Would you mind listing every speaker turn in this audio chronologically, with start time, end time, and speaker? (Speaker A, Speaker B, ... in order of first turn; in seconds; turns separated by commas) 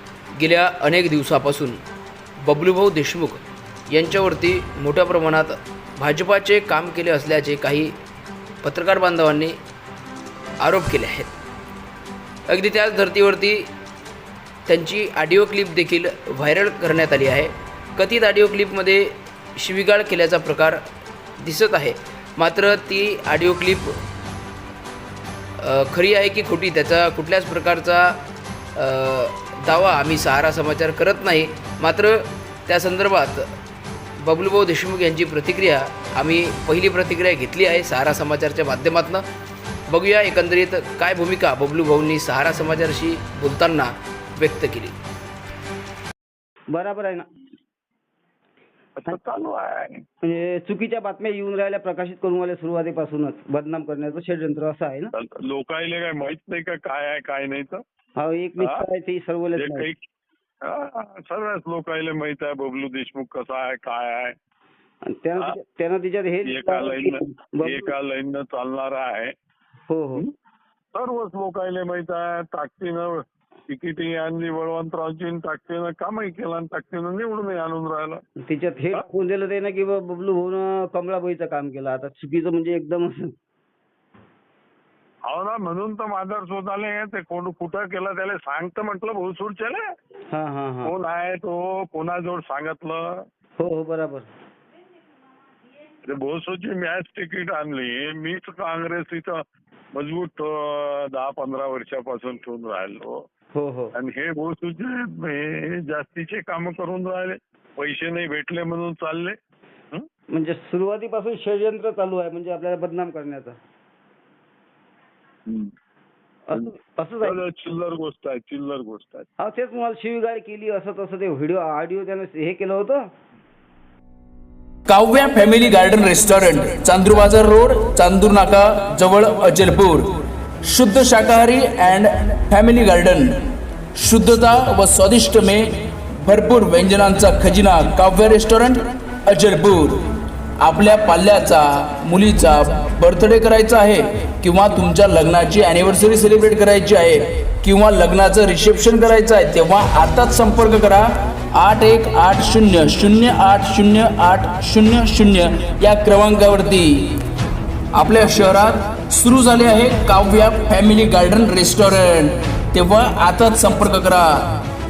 Speaker A: 0.3-1.8, Speaker A: 2.4-7.9, Speaker A: 8.6-9.6, Speaker A: 10.6-11.3, Speaker A: 12.5-13.7, Speaker A: 14.7-20.8, Speaker A: 21.4-24.0, Speaker A: 25.6-28.2, Speaker A: 28.7-33.5, Speaker A: 34.2-39.2, Speaker A: 39.9-44.9, Speaker B: 46.7-47.2, Speaker C: 49.0-50.0, Speaker B: 50.2-55.1, Speaker C: 55.1-57.8, Speaker B: 58.2-59.9, Speaker C: 58.6-58.8, Speaker C: 59.5-60.0, Speaker C: 60.6-64.3, Speaker B: 65.0-67.9, Speaker C: 66.4-69.3, Speaker B: 69.9-70.2, Speaker C: 70.9-78.2, Speaker B: 78.5-83.3, Speaker C: 85.2-89.8, Speaker B: 90.3-90.9, Speaker C: 90.8-93.2, Speaker B: 93.6-94.3, Speaker C: 96.0-103.2, Speaker B: 103.5-103.9, Speaker C: 103.9-109.4, Speaker B: 110.3-113.6, Speaker C: 115.5-115.7, Speaker B: 116.5-117.4, Speaker C: 117.2-119.3, Speaker B: 119.4-123.0, Speaker D: 124.9-157.2, Speaker D: 157.9-164.5